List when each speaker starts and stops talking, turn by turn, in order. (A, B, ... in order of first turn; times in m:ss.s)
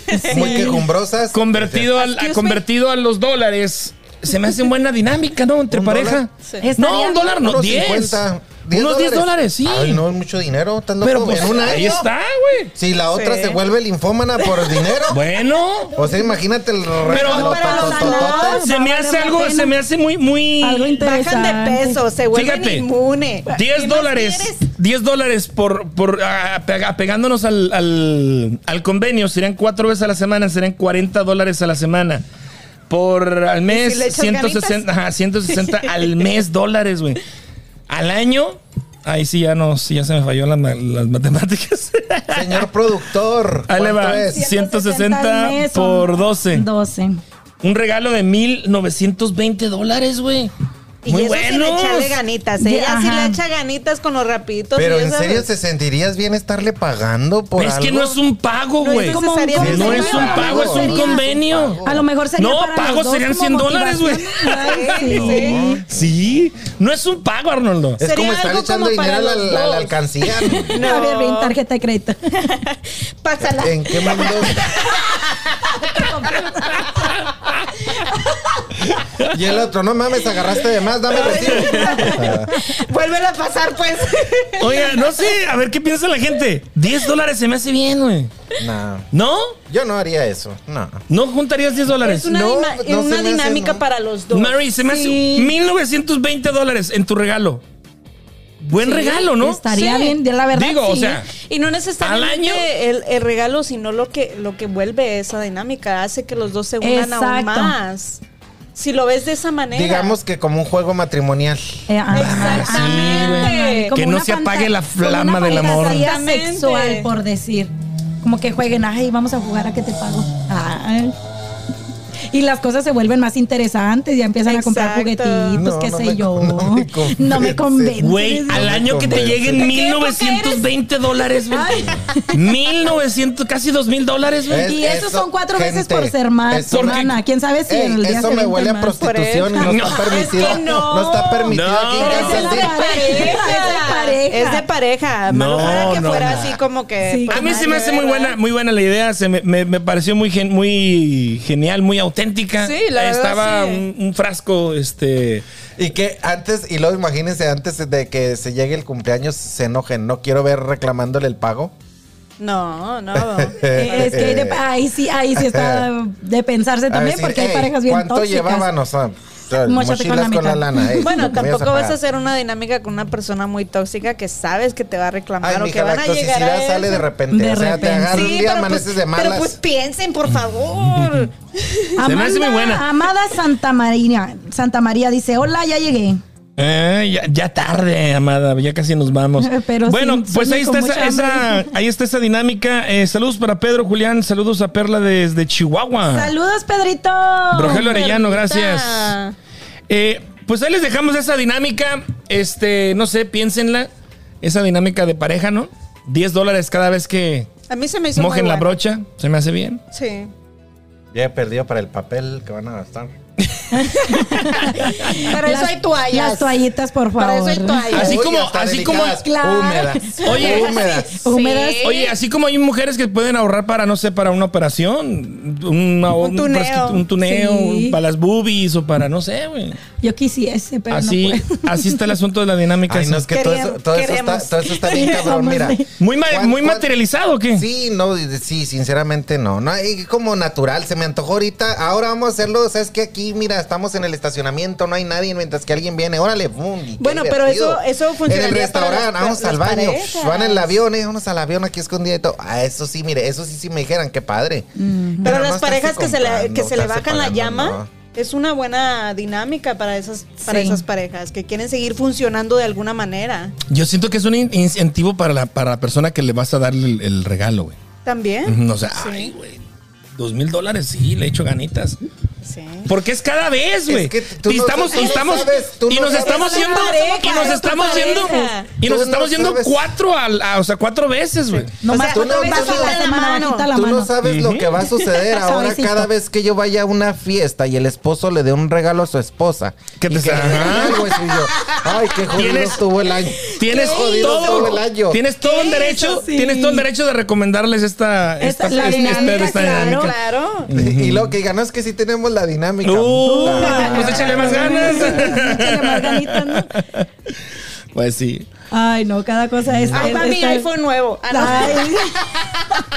0:00.1-0:00.8 A
0:00.2-0:00.8 B
0:00.3-0:01.9 C
0:01.3-0:10.0 D
0:02.0-0:02.6 A
0:05.7-0:06.2 C
0:06.6-0:07.3 B
0:07.0-0:12.1 C
0:11.0-0:12.7 D
0:11.7-0:12.0 A
0:12.8-0:15.2 C
0:13.1-0:13.6 A
0:14.4-0:15.1 A
0:15.1-0:16.0 D
0:15.9-0:18.6 C
0:17.0-0:18.6 A
0:17.1-0:17.9 D
0:17.2-0:19.7 B
0:18.5-0:21.0 D
0:20.6-0:22.0 B
0:21.0-0:24.6 A
0:22.3-0:22.9 D
0:23.5-0:32.2 D
0:32.9-0:37.2 D
0:33.7-0:34.8 A
0:37.9-0:42.7 D
0:42.3-0:44.4 C
0:43.7-0:46.7 D
0:44.3-0:47.2 B
0:47.6-0:50.5 D
0:51.0-0:55.5 A
0:51.1-0:52.2 D
0:52.6-0:53.4 B
0:54.8-0:58.2 C
0:57.6-1:01.8 D
0:58.8-1:01.0 A
0:58.9-1:01.3 B
0:59.6-1:02.1 C
1:01.8-1:05.8 B
1:02.4-1:05.3 D
1:04.6-1:05.6 A
1:05.1-1:06.1 C
1:05.9-1:08.0 D
1:08.0-1:10.8 C
1:08.0-1:10.0 A
1:10.5-1:11.5 A
1:10.7-1:12.3 B
1:12.5-1:17.1 A
1:13.4-1:14.7 C
1:15.9-1:16.7 B
1:19.3-1:22.5 C
1:21.1-1:25.2 A
1:21.7-1:22.2 D
1:24.6-1:28.3 D
1:28.6-1:29.1 C
1:29.1-1:29.6 D
1:29.7-1:31.0 C
1:31.1-1:32.3 D
1:31.9-1:34.6 A
1:32.3-1:33.8 C
1:34.3-1:37.6 D
1:34.8-1:35.5 B
1:38.6-1:39.6 D
1:38.8-1:41.2 B
1:39.7-1:40.2 A
1:40.5-1:41.3 D
1:41.3-1:48.2 A
1:42.0-1:42.7 D
1:46.8-1:47.8 B
1:48.8-1:50.2 A
1:49.7-1:51.8 C
1:51.9-1:57.7 B
1:52.1-1:53.9 A
1:52.2-1:56.1 D
1:55.4-1:57.1 A
1:58.2-2:01.2 B
2:02.3-2:08.7 B
2:04.4-2:05.6 A
2:05.5-2:09.7 C
2:08.0-2:14.7 D
2:09.6-2:10.6 B
2:10.1-2:10.6 A
2:11.5-2:12.4 B
2:14.5-2:17.2 C
2:14.6-2:18.9 B
2:16.7-2:17.2 D
2:17.7-2:22.9 C
2:18.8-2:28.4 A
2:19.6-2:20.1 D
2:20.1-2:20.8 B
2:21.5-2:22.6 D
2:22.0-2:24.6 B
2:25.3-2:26.6 D
2:27.0-2:27.7 B
2:27.3-2:35.5 D
2:32.6-2:33.8 A
2:35.8-2:41.7 C
2:42.4-2:44.2 A
2:43.1-2:44.6 C
2:43.7-2:48.7 B
2:45.3-2:45.9 C
2:46.9-2:52.0 C
2:49.6-2:51.4 B
2:51.0-2:57.1 A
2:55.4-2:59.6 C
2:57.3-2:58.3 B
2:58.1-3:02.0 A
3:01.0-3:01.2 D
3:02.0-3:06.2 B
3:02.0-3:02.9 D
3:06.6-3:16.3 D
3:09.4-3:11.7 B
3:16.1-3:17.9 B
3:17.5-3:19.2 D
3:17.6-3:19.4 A
3:19.9-3:23.9 D
3:24.4-3:27.5 D
3:27.7-3:28.7 A
3:28.2-3:29.8 D
3:29.9-3:30.3 A
3:31.1-3:33.1 C
3:33.5-3:34.2 D
3:33.7-3:38.0 B
3:34.7-3:36.6 A
3:37.2-3:38.2 A
3:37.9-3:39.2 D
3:37.9-3:41.2 C
3:38.9-3:41.9 B
3:40.2-3:40.7 D
3:40.4-3:42.1 A
3:41.8-3:49.8 D
3:46.2-3:47.0 A
3:47.2-3:48.0 B
3:50.0-3:52.0 B
3:50.9-3:53.3 D
3:52.9-3:56.9 C
3:53.3-3:54.8 A
3:54.8-3:55.9 B
3:56.0-3:57.6 D
3:57.5-4:14.7 C
4:07.0-4:10.8 A
4:14.8-4:15.3 B
4:15.2-4:17.9 C
4:15.2-4:23.6 A
4:20.5-4:20.8 B
4:23.7-4:27.8 D
4:28.0-4:29.3 A
4:28.4-4:29.6 D
4:30.2-4:32.0 D
4:32.4-4:32.9 A
4:32.9-4:41.7 D
4:33.9-4:36.7 C
4:36.1-4:38.7 A
4:36.3-4:38.5 B
4:38.8-4:39.8 C
4:41.5-4:43.7 A
4:41.8-4:44.1 B
4:42.0-4:43.0 C
4:43.7-4:55.2 C
4:44.2-4:44.8 D
4:45.3-4:46.1 B
4:50.0-4:51.1 D
4:51.3-4:52.0 A
4:52.3-4:52.8 D
4:53.6-5:00.2 D
4:53.7-4:54.6 B
4:55.4-4:56.8 B
4:55.6-4:56.0 A
4:58.4-5:00.1 B
4:58.7-5:00.7 A
5:00.7-5:01.3 D
5:00.7-5:04.5 C
5:02.8-5:07.1 D
5:03.2-5:06.7 B
5:03.5-5:05.4 A
5:07.9-5:08.5 D
5:08.7-5:10.7 B
5:09.8-5:10.1 D
5:09.9-5:12.5 A
5:11.3-5:12.1 B